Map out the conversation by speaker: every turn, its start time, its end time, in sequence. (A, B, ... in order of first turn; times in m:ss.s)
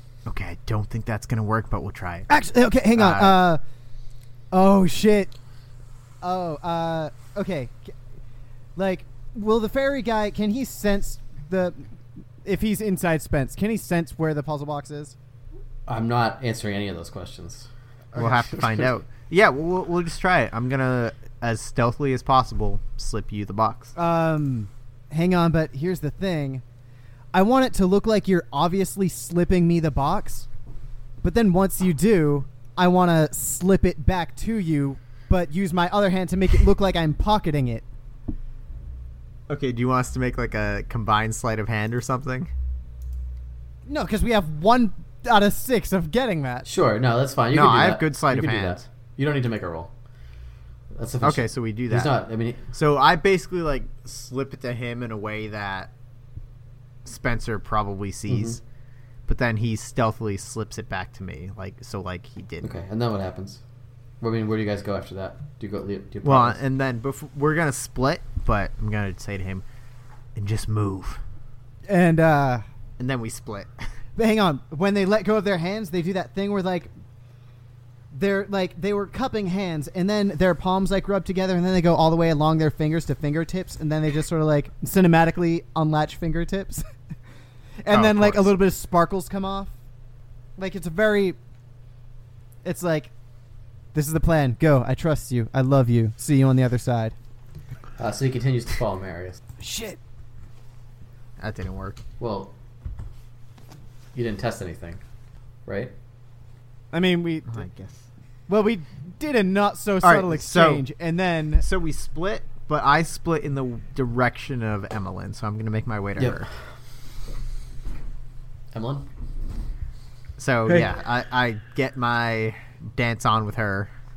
0:00.3-0:02.3 A
0:02.3-0:03.6 B
0:03.0-0:03.4 A
0:04.5-0:05.3 B
0:06.2-0:08.0 B
0:08.8-0:11.9 B
0:12.4-0:15.2 B
0:15.9-0:17.7 C
0:18.1-0:23.9 A
0:18.2-0:18.9 C
0:24.0-0:26.6 B
0:27.3-0:30.5 B
0:31.2-0:37.8 B
0:39.5-0:42.5 A
0:43.9-0:46.7 B
0:46.7-0:49.9 C
0:47.5-0:48.8 A
0:50.9-0:52.7 C
0:51.2-0:52.2 A
0:52.7-0:55.9 A
0:57.0-0:58.6 A
0:58.3-0:58.6 C
0:59.3-1:02.8 A
1:02.6-1:03.6 C
1:04.2-1:06.6 C
1:06.2-1:09.6 A
1:10.4-1:11.2 A
1:11.9-1:12.6 B
1:13.0-1:13.9 A
1:14.2-1:16.9 B
1:18.1-1:26.8 B
1:27.8-1:29.7 B
1:27.9-1:28.6 A
1:30.6-1:31.4 B
1:32.6-1:33.1 B
1:33.9-1:37.2 B
1:38.0-1:39.4 C
1:39.6-1:40.0 B
1:41.4-1:42.0 A
1:42.2-1:42.5 C
1:44.1-1:45.0 C
1:45.7-1:45.9 C
1:46.9-1:47.6 B
1:47.5-1:48.1 A
1:48.5-1:51.6 B
1:50.0-1:50.9 A
1:51.6-1:56.5 A
1:56.2-1:56.5 C
1:58.7-1:59.1 C
2:00.4-2:03.9 A